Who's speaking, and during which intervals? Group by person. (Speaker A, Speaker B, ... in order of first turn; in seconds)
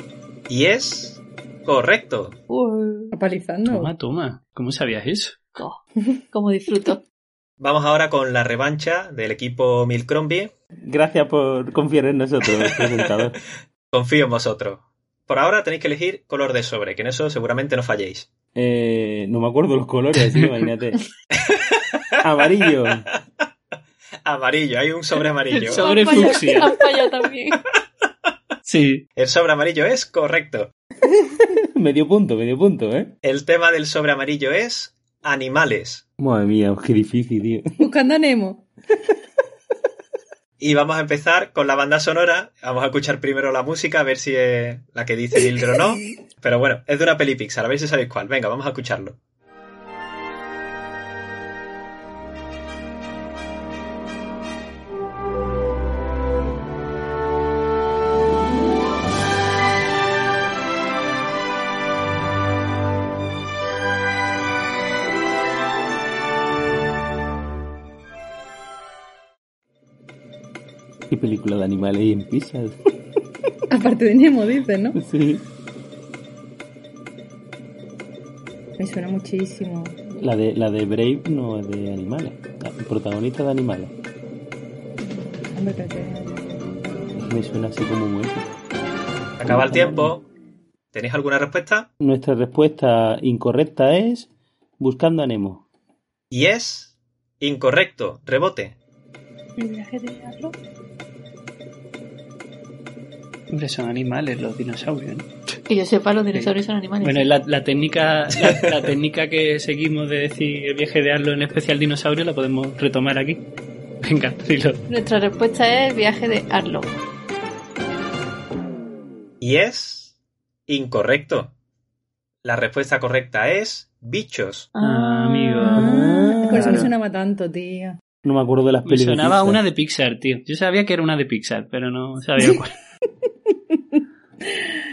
Speaker A: 0.5-2.4, 7.6-10.5, 13.9-18.3, 21.4-22.0, 24.2-26.2, 29.2-30.7, 33.2-36.0, 40.6-49.2, 89.4-90.3, 90.9-91.9, 96.3-98.8, 119.4-120.1, 120.7-121.5, 122.4-124.7
Speaker B: 2.5-3.1, 5.5-7.0, 25.5-27.6, 99.6-100.5, 105.7-107.3, 114.9-116.9, 124.8-125.8
Speaker C: 3.1-3.9, 37.8-38.6, 73.7-75.0, 78.8-80.0, 85.1-87.1, 125.7-128.0
Speaker D: 3.7-5.5, 25.6-26.8, 28.6-29.0, 103.5-105.6, 106.3-113.4, 114.0-114.8, 124.8-125.9, 126.5-126.9, 128.8-132.7
Speaker E: 10.8-13.4, 18.6-21.0, 22.2-23.1, 31.8-33.1, 36.2-37.6, 71.1-72.8, 75.0-75.4, 80.1-83.9, 87.1-88.5, 89.5-90.1, 92.0-94.3, 94.8-95.6, 125.7-126.9, 128.2-129.6